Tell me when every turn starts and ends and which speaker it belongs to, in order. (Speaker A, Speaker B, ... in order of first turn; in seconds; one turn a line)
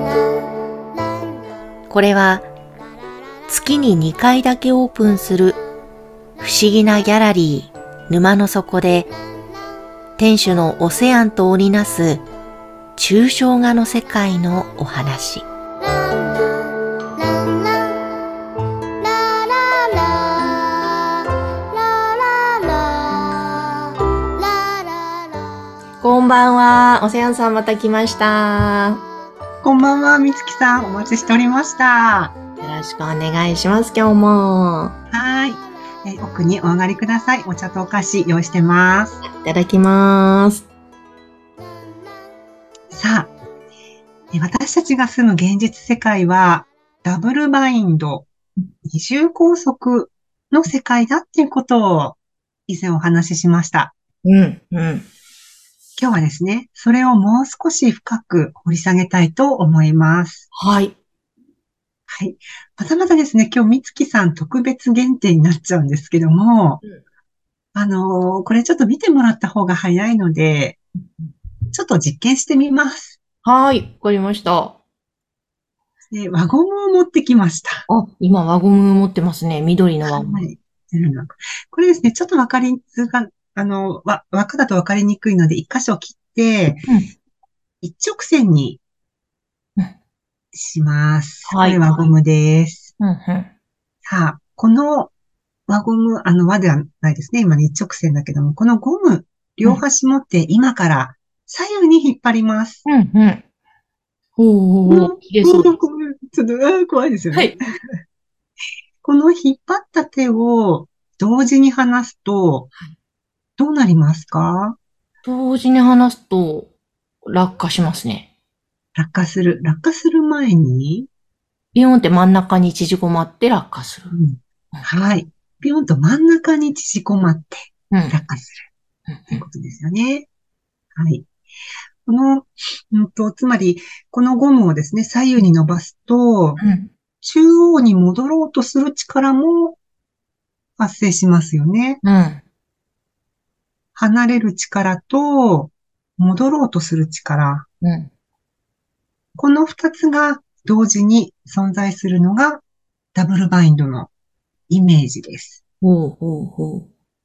Speaker A: 1.9-2.5
Speaker A: 3.5-5.6
Speaker A: 6.4-9.1
Speaker A: 10.2-12.2
Speaker A: 12.9-15.5
Speaker A: 26.0-29.0
Speaker B: 29.6-32.4
Speaker A: 32.6-35.0
Speaker B: 35.1-39.2
Speaker A: 39.2-40.7
Speaker B: 42.9-43.3
Speaker B: 44.3-48.3
Speaker B: 48.8-53.9
Speaker A: 54.2-55.1
Speaker B: 56.0-60.5
Speaker A: 60.5-61.0
Speaker B: 62.1-66.8
Speaker B: 67.7-70.8
Speaker B: 71.7-73.2
Speaker A: 73.4-74.8
Speaker B: 76.1-77.8
Speaker A: 77.9-80.4
Speaker B: 80.1-86.9
Speaker B: 87.8-88.8
Speaker B: 90.5-92.9
Speaker A: 91.5-92.0
Speaker A: 93.0-93.5
Speaker B: 94.0-95.1
Speaker B: 95.7-102.8
Speaker A: 102.8-103.4
Speaker A: 104.4-105.7
Speaker B: 104.8-107.6
Speaker B: 109.0-112.7
Speaker B: 113.6-114.8
Speaker A: 115.2-116.7
Speaker A: 117.2-118.3
Speaker B: 119.0-121.1
Speaker A: 121.7-124.1
Speaker B: 124.1-128.6
Speaker A: 127.9-128.2
Speaker A: 129.1-129.4
Speaker B: 129.3-130.3
Speaker B: 130.9-131.3
Speaker B: 132.1-136.6
Speaker A: 136.6-136.9
Speaker B: 137.2-139.8
Speaker B: 140.8-142.0
Speaker A: 142.0-142.4
Speaker B: 143.9-147.7
Speaker A: 147.8-148.1
Speaker B: 149.4-152.6
Speaker B: 153.1-154.1
Speaker B: 154.7-155.6
Speaker A: 155.8-156.9